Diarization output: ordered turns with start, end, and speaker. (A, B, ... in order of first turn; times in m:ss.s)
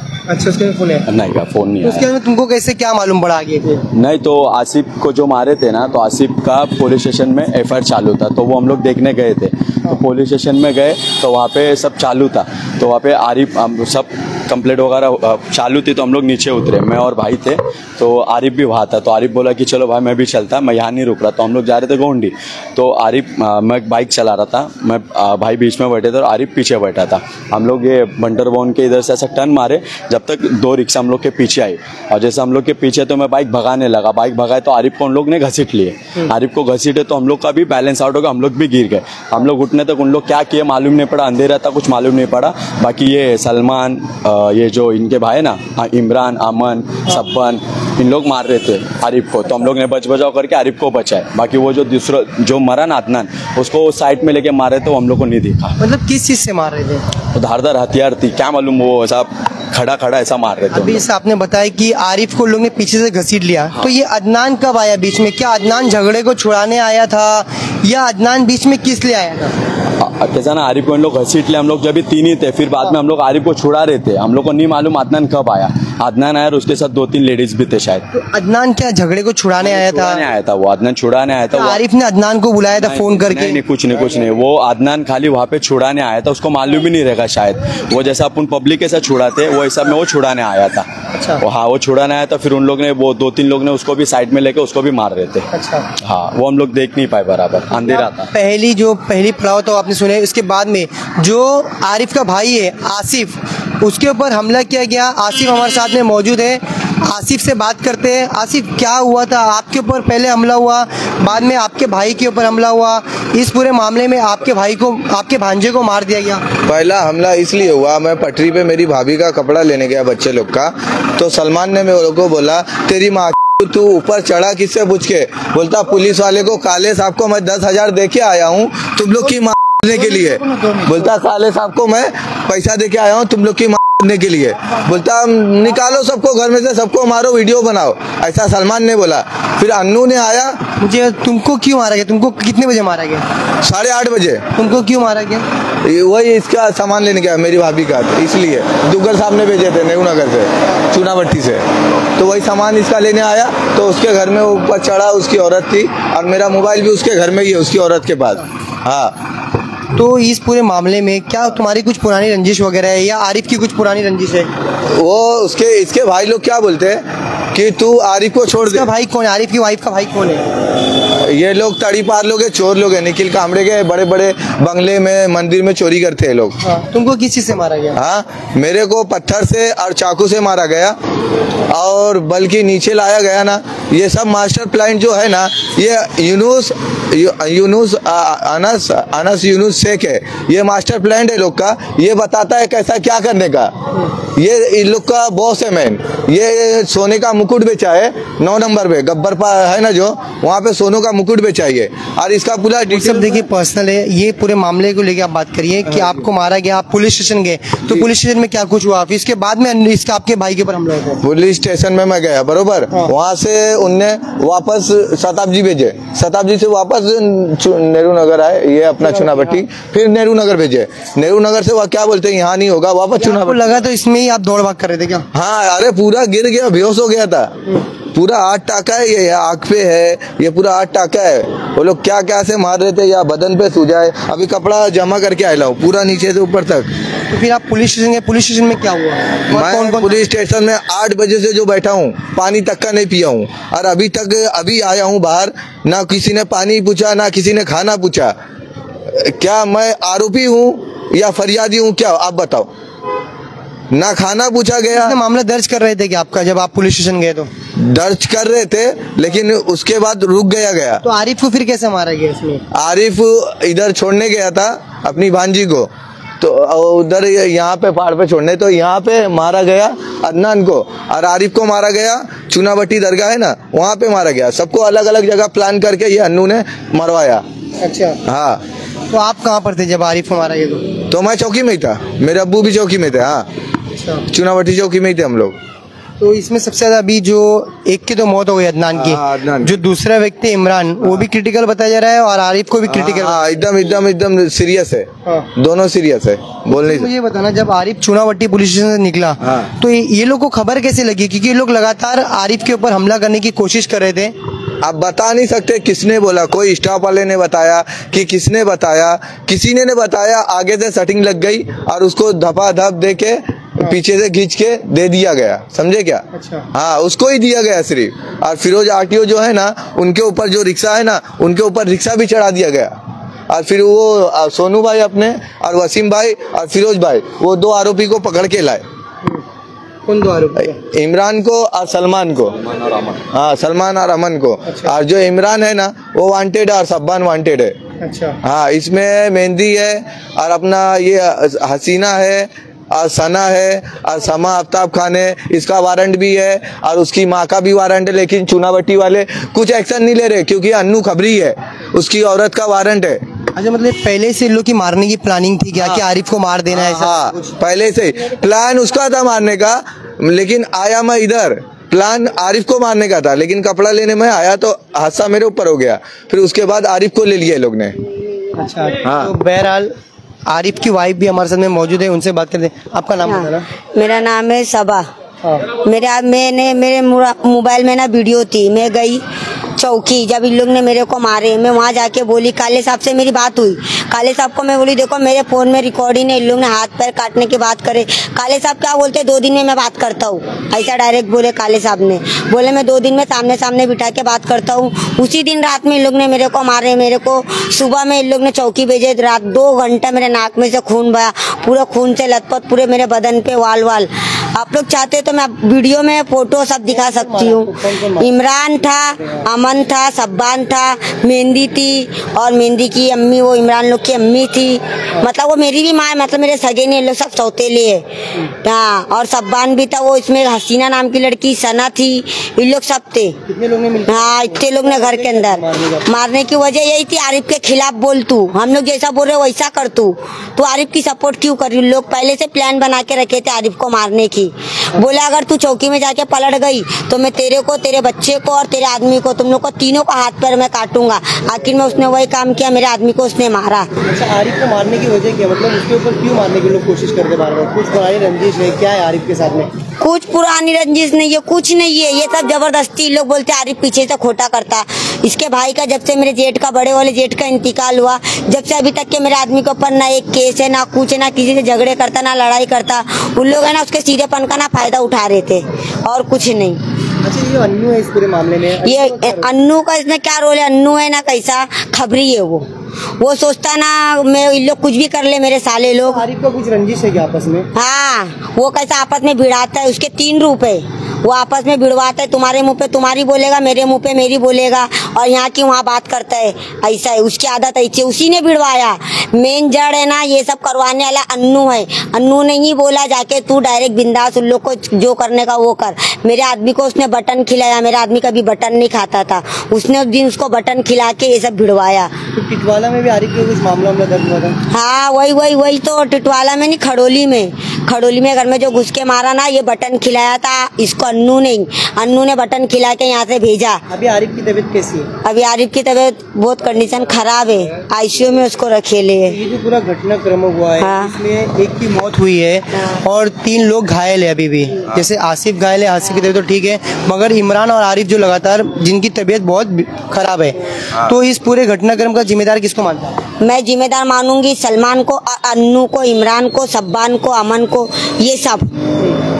0:00.3-0:01.0 A
0:01.1-0:02.1 B
0:01.8-0:03.8 A
0:03.9-0:55.8 B
0:55.8-0:57.0 A
0:57.3-1:01.0 B
1:00.7-1:09.6 A
1:10.0-1:18.0 B
1:18.1-1:20.2 A
1:19.6-1:21.8 B
1:21.5-1:23.6 A
1:22.7-1:30.8 B
1:31.1-1:31.4 A
1:31.4-1:35.5 B
1:35.5-1:35.9 A
1:36.0-1:38.3 B
1:37.8-1:56.4 A
1:56.6-2:20.6 C
2:10.6-2:10.9 A
2:20.8-2:23.2 A
2:23.6-2:24.4 C
2:24.6-2:25.4 A
2:25.8-2:31.6 C
2:32.2-2:39.2 C
2:39.9-2:44.5 A
2:45.0-2:48.9 C
2:48.6-2:50.5 A
2:51.2-2:56.6 C
2:56.6-2:58.0 A
2:58.0-3:01.0 C
3:01.7-3:23.4 C
3:22.9-3:31.2 A
3:31.2-3:43.7 C
3:39.0-3:39.6 A
3:43.2-3:45.2 A
3:45.3-3:47.6 C
3:48.1-3:56.9 C
3:57.3-4:00.2 A
3:59.5-4:08.3 C
4:09.1-4:12.7 C
4:13.9-4:15.2 C
4:14.9-4:17.5 A
4:17.8-4:21.0 C
4:21.0-4:22.6 A
4:22.7-4:25.9 C
4:26.4-4:37.4 C
4:37.8-4:38.2 A
4:38.2-4:38.6 C
4:39.1-4:40.9 A
4:41.1-4:43.5 C
4:43.9-4:44.2 A
4:44.3-4:45.6 C
4:46.2-4:53.4 A
4:49.0-4:49.8 C
4:52.9-4:57.1 C
4:56.7-5:04.3 A
5:04.8-5:22.9 C
5:16.3-5:16.6 A
5:23.5-5:28.8 C
5:30.0-5:30.8 A
5:30.6-5:32.6 C
5:32.7-5:33.1 B
5:33.2-5:37.7 C
5:34.7-5:34.9 A
5:38.0-5:38.4 A
5:38.4-5:53.2 C
5:53.6-5:57.5 A
5:56.7-6:07.9 C
6:08.6-6:09.9 A
6:09.0-6:09.3 C
6:10.5-6:13.6 A
6:13.3-6:15.0 D
6:15.7-6:19.2 D
6:19.8-6:58.0 D
6:46.9-6:48.3 A
6:58.6-7:03.4 D
7:03.5-7:06.1 A
7:04.1-7:23.9 D
7:24.0-7:29.7 A
7:30.0-7:46.8 D
7:47.2-7:49.5 A
7:48.8-7:52.7 D
7:53.2-7:56.2 D
7:56.0-7:57.7 A
7:57.7-8:22.1 D
8:22.3-8:24.6 A
8:24.7-8:33.8 D
8:33.9-8:35.1 A
8:35.2-8:39.4 D
8:39.2-8:53.2 A
8:40.8-8:41.2 D
8:53.4-8:58.7 D